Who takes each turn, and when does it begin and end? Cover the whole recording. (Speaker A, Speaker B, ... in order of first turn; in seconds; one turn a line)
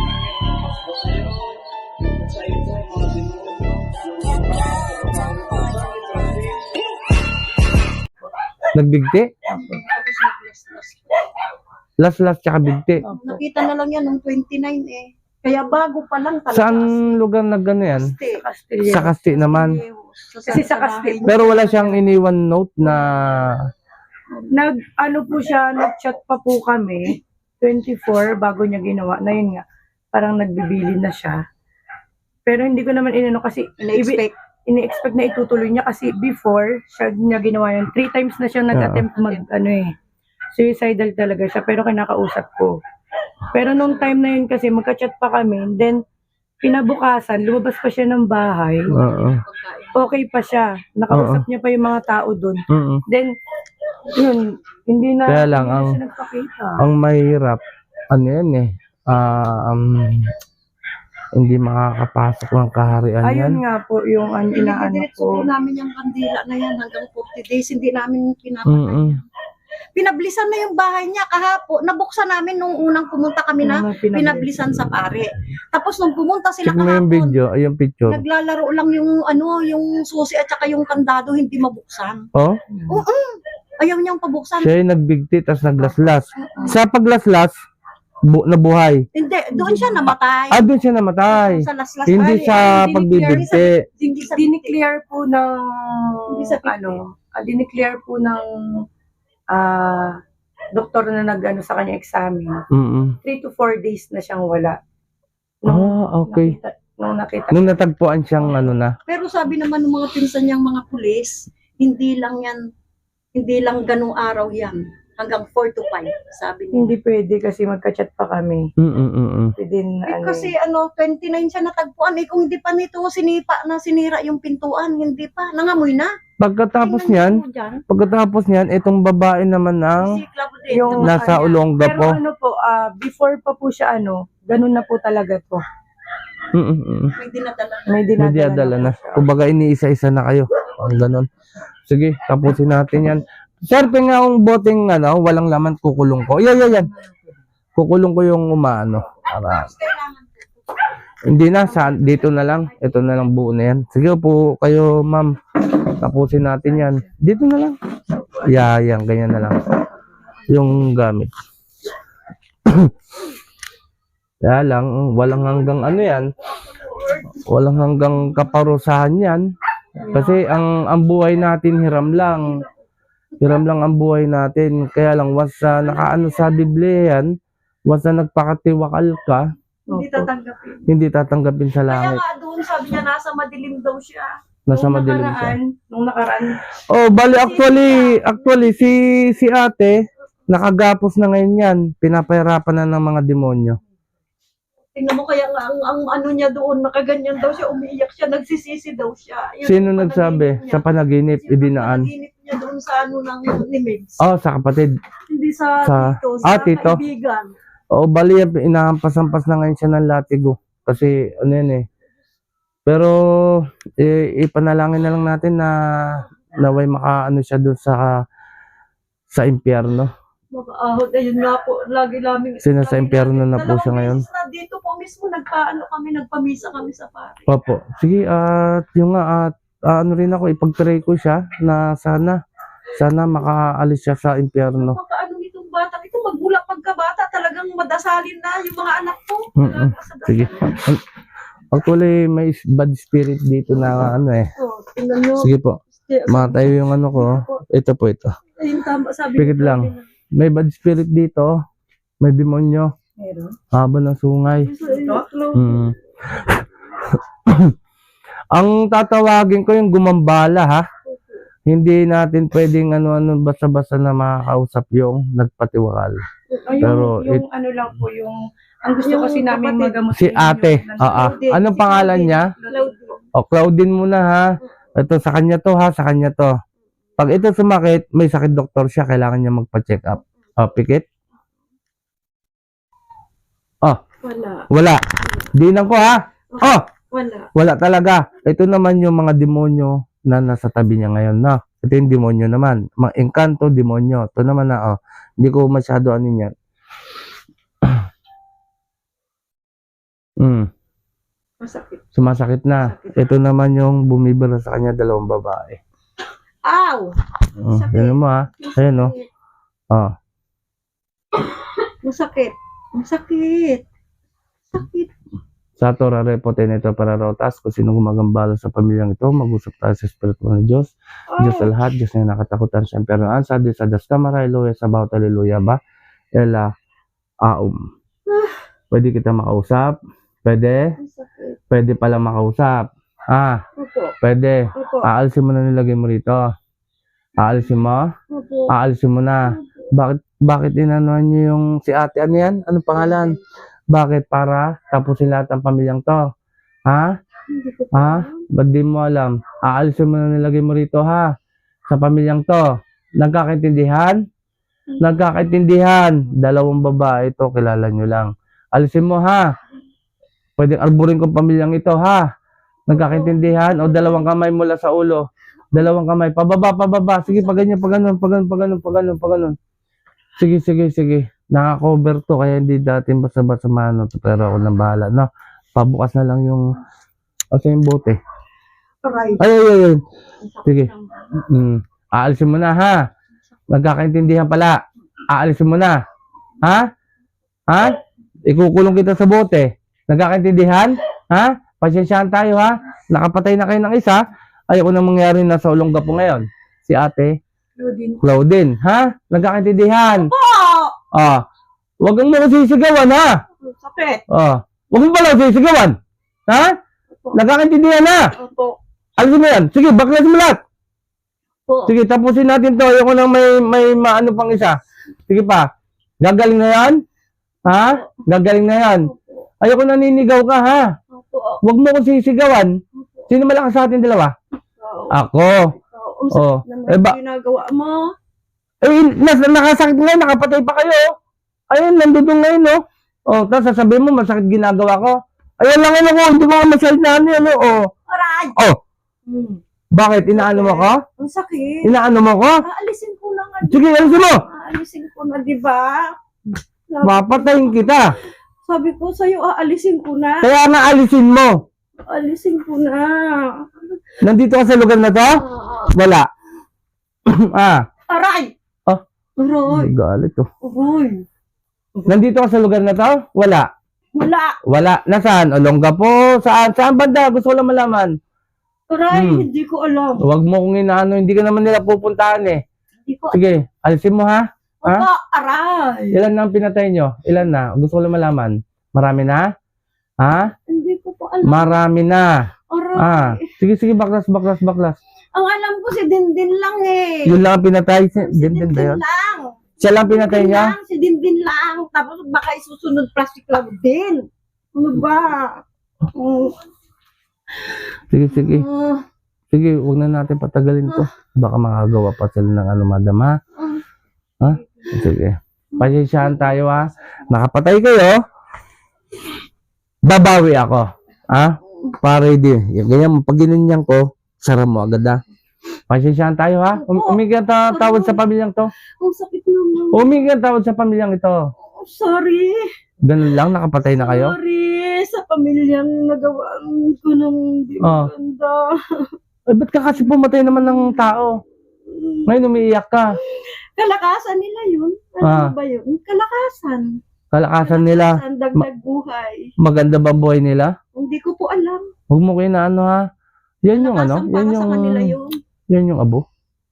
Speaker A: 0.5-1.4
Speaker A: 2.1-6.7
Speaker B: 8.7-9.3
Speaker C: 9.5-9.8
Speaker D: 9.5-11.3
Speaker B: 12.0-13.0
Speaker C: 13.0-13.4
Speaker D: 13.1-17.1
Speaker B: 16.5-18.1
Speaker D: 17.9-18.4
Speaker C: 18.4-19.1
Speaker B: 18.9-19.8
Speaker D: 19.3-22.0
Speaker C: 20.5-21.3
Speaker B: 21.3-23.6
Speaker C: 24.5-29.6
Speaker C: 30.1-31.4
Speaker C: 32.5-39.9
Speaker D: 33.8-34.3
Speaker B: 38.7-39.1
Speaker D: 39.1-39.4
Speaker C: 40.6-42.7
Speaker C: 43.5-46.0
Speaker D: 43.6-44.1
Speaker C: 46.6-48.9
Speaker D: 48.9-50.2
Speaker B: 48.9-49.4
Speaker C: 50.0-53.3
Speaker B: 51.1-51.4
Speaker B: 52.7-53.0
Speaker C: 54.1-56.9
Speaker B: 55.3-56.0
Speaker B: 56.8-60.3
Speaker B: 61.4-63.6
Speaker C: 63.2-65.4
Speaker D: 64.5-69.3
Speaker B: 68.7-69.2
Speaker D: 70.0-77.4
Speaker C: 73.6-74.6
Speaker B: 76.7-78.2
Speaker D: 78.1-82.2
Speaker B: 82.3-82.6
Speaker C: 82.7-83.0
Speaker D: 82.9-84.7
Speaker B: 84.6-87.5
Speaker B: 88.3-89.0
Speaker D: 89.1-90.7
Speaker C: 89.6-90.0
Speaker B: 90.5-93.8
Speaker D: 91.3-94.8
Speaker C: 92.2-93.5
Speaker C: 94.3-98.5
Speaker D: 96.3-97.0
Speaker C: 99.5-100.1
Speaker C: 100.8-102.6
Speaker B: 102.7-103.2
Speaker C: 103.2-104.8
Speaker C: 105.6-107.8
Speaker B: 105.7-106.6
Speaker B: 107.5-108.9
Speaker D: 109.1-112.6
Speaker D: 113.3-116.9
Speaker C: 116.7-118.6
Speaker B: 118.8-119.5
Speaker C: 119.6-120.5
Speaker D: 120.1-126.1
Speaker B: 126.4-127.4
Speaker D: 126.8-127.8
Speaker B: 127.9-130.1
Speaker D: 130.0-131.6
Speaker C: 130.7-135.6
Speaker B: 131.0-132.2
Speaker B: 136.5-137.1
Speaker D: 137.2-138.0
Speaker C: 137.9-139.3
Speaker B: 138.2-141.3
Speaker B: 141.9-146.9
Speaker B: 147.8-149.7
Speaker D: 149.2-150.3
Speaker B: 151.3-155.3
Speaker D: 151.5-153.2
Speaker B: 156.0-157.8
Speaker B: 158.4-159.6
Speaker B: 160.5-161.3
Speaker B: 162.7-162.9
Speaker B: 164.4-166.3
Speaker D: 166.7-167.2
Speaker B: 167.3-169.4
Speaker C: 170.1-170.4
Speaker B: 170.1-172.5
Speaker D: 173.4-173.7
Speaker B: 173.4-177.3
Speaker D: 175.7-176.7
Speaker B: 177.9-179.4
Speaker C: 179.9-180.3
Speaker D: 179.9-180.9
Speaker B: 180.9-182.2
Speaker D: 181.9-184.3
Speaker B: 184.7-185.6
Speaker C: 184.7-186.6
Speaker B: 186.9-190.0
Speaker D: 187.2-189.3
Speaker B: 190.5-193.8
Speaker D: 194.9-204.2
Speaker B: 199.6-202.1
Speaker B: 204.2-204.9
Speaker D: 205.3-207.5
Speaker B: 205.8-207.0
Speaker B: 207.9-211.8
Speaker B: 212.9-218.1
Speaker B: 219.3-220.1
Speaker D: 220.5-227.4
Speaker B: 222.6-224.2
Speaker B: 227.5-232.4
Speaker B: 233.0-235.0
Speaker D: 234.7-240.8
Speaker B: 239.6-241.0
Speaker B: 241.7-244.5
Speaker D: 244.6-245.5
Speaker B: 245.4-248.3
Speaker D: 246.0-247.5
Speaker D: 248.6-250.0
Speaker B: 249.4-251.5
Speaker B: 252.2-252.9
Speaker C: 253.2-253.5
Speaker B: 253.7-254.7
Speaker D: 254.6-255.7
Speaker C: 254.8-255.6
Speaker B: 255.5-257.8
Speaker B: 258.5-260.8
Speaker B: 261.7-266.2
Speaker D: 266.5-267.0
Speaker C: 266.6-271.4
Speaker B: 266.8-267.4
Speaker D: 269.0-270.0
Speaker B: 270.1-272.5
Speaker D: 271.0-273.2
Speaker C: 272.5-273.0
Speaker B: 273.4-276.5
Speaker B: 277.2-281.1
Speaker D: 284.2-284.7
Speaker B: 284.7-285.0
Speaker B: 285.5-286.8
Speaker D: 286.5-287.5
Speaker B: 287.6-296.5
Speaker B: 300.4-300.7
Speaker D: 301.6-302.2
Speaker B: 302.1-305.8
Speaker D: 302.7-303.2
Speaker D: 306.6-307.1
Speaker B: 307.6-309.1
Speaker D: 307.7-309.3
Speaker D: 311.4-313.8
Speaker D: 314.7-315.1
Speaker B: 315.8-325.8
Speaker D: 321.3-321.7
Speaker B: 326.4-326.7
Speaker B: 327.5-327.8
Speaker B: 328.9-330.9
Speaker D: 331.0-331.6
Speaker B: 331.7-333.6
Speaker D: 333.8-334.1
Speaker B: 334.2-336.4
Speaker D: 334.8-335.1
Speaker B: 337.4-338.1
Speaker D: 338.3-338.8
Speaker B: 338.7-343.4
Speaker D: 339.4-339.9
Speaker D: 342.9-343.4
Speaker B: 343.9-346.2
Speaker B: 346.9-347.1
Speaker D: 347.5-348.4
Speaker B: 347.9-351.3
Speaker B: 351.9-352.6
Speaker B: 353.2-354.2
Speaker D: 354.9-355.4
Speaker B: 355.0-359.4
Speaker B: 360.6-362.2
Speaker B: 362.9-369.6
Speaker D: 362.9-364.3
Speaker D: 367.3-367.6
Speaker B: 370.4-376.7
Speaker B: 377.5-378.2
Speaker D: 379.1-379.4
Speaker B: 379.4-380.0
Speaker D: 380.4-381.3
Speaker B: 380.6-383.0
Speaker B: 383.7-384.8
Speaker B: 385.3-386.0
Speaker B: 387.7-387.9
Speaker B: 388.5-394.2
Speaker B: 394.7-397.3
Speaker C: 397.8-398.2
Speaker B: 398.2-400.3
Speaker D: 400.2-400.9
Speaker B: 401.1-401.4
Speaker B: 402.0-403.4
Speaker D: 403.6-404.2
Speaker B: 404.3-406.0
Speaker B: 406.5-406.7
Speaker B: 407.3-408.3
Speaker D: 408.4-408.8
Speaker B: 409.2-410.6
Speaker D: 411.7-411.9
Speaker B: 411.9-415.7
Speaker B: 416.2-417.0
Speaker B: 417.7-419.1
Speaker D: 417.7-418.2
Speaker D: 419.0-419.5
Speaker B: 419.6-420.9
Speaker D: 421.1-421.6
Speaker B: 421.6-422.8
Speaker D: 422.9-423.3
Speaker B: 423.3-424.3
Speaker D: 424.8-425.2
Speaker B: 425.1-425.7
Speaker D: 425.8-428.1
Speaker B: 426.3-427.2
Speaker B: 428.8-431.1
Speaker B: 431.7-437.9
Speaker D: 438.1-438.6
Speaker D: 439.3-439.6
Speaker B: 439.9-441.0
Speaker D: 440.3-442.0
Speaker B: 441.8-442.6
Speaker D: 442.6-446.2
Speaker B: 443.7-444.4
Speaker D: 446.9-448.0
Speaker B: 447.0-448.0
Speaker D: 448.6-450.5
Speaker B: 450.4-451.6
Speaker D: 452.1-454.0
Speaker B: 454.2-456.3
Speaker D: 455.4-456.0
Speaker B: 457.3-457.9
Speaker D: 458.1-458.5
Speaker D: 459.4-459.9
Speaker B: 459.7-460.5
Speaker D: 460.6-461.2
Speaker B: 462.1-463.7
Speaker D: 464.1-464.6
Speaker B: 464.7-468.1
Speaker D: 468.9-470.3
Speaker B: 469.1-469.5
Speaker B: 470.2-472.6
Speaker D: 473.1-473.4
Speaker B: 473.3-475.1
Speaker D: 474.8-476.2
Speaker B: 476.1-479.5
Speaker B: 480.2-480.5
Speaker D: 480.3-481.8
Speaker B: 481.4-482.3
Speaker D: 482.7-483.5
Speaker B: 483.0-485.0
Speaker D: 485.3-487.4
Speaker B: 487.3-489.0
Speaker D: 488.2-495.6
Speaker B: 489.8-490.8
Speaker D: 496.1-496.6
Speaker D: 497.6-499.0
Speaker B: 498.1-498.7
Speaker B: 499.5-503.4
Speaker B: 504.4-508.2
Speaker D: 504.5-505.0
Speaker D: 505.7-506.6
Speaker B: 510.1-515.2
Speaker B: 515.9-518.7
Speaker D: 516.7-518.3
Speaker D: 519.0-520.1
Speaker B: 519.9-521.4
Speaker D: 521.6-522.6
Speaker B: 523.1-524.4
Speaker D: 523.9-529.0
Speaker B: 527.8-528.1
Speaker B: 529.5-531.3
Speaker D: 530.6-531.1
Speaker D: 531.9-532.6
Speaker B: 532.3-533.1
Speaker D: 533.2-537.0
Speaker B: 535.2-535.5
Speaker B: 537.3-538.7
Speaker D: 537.6-539.5
Speaker B: 539.6-540.7
Speaker D: 540.9-541.8
Speaker B: 542.1-543.0
Speaker B: 543.6-545.2
Speaker D: 543.7-545.4
Speaker B: 545.7-546.2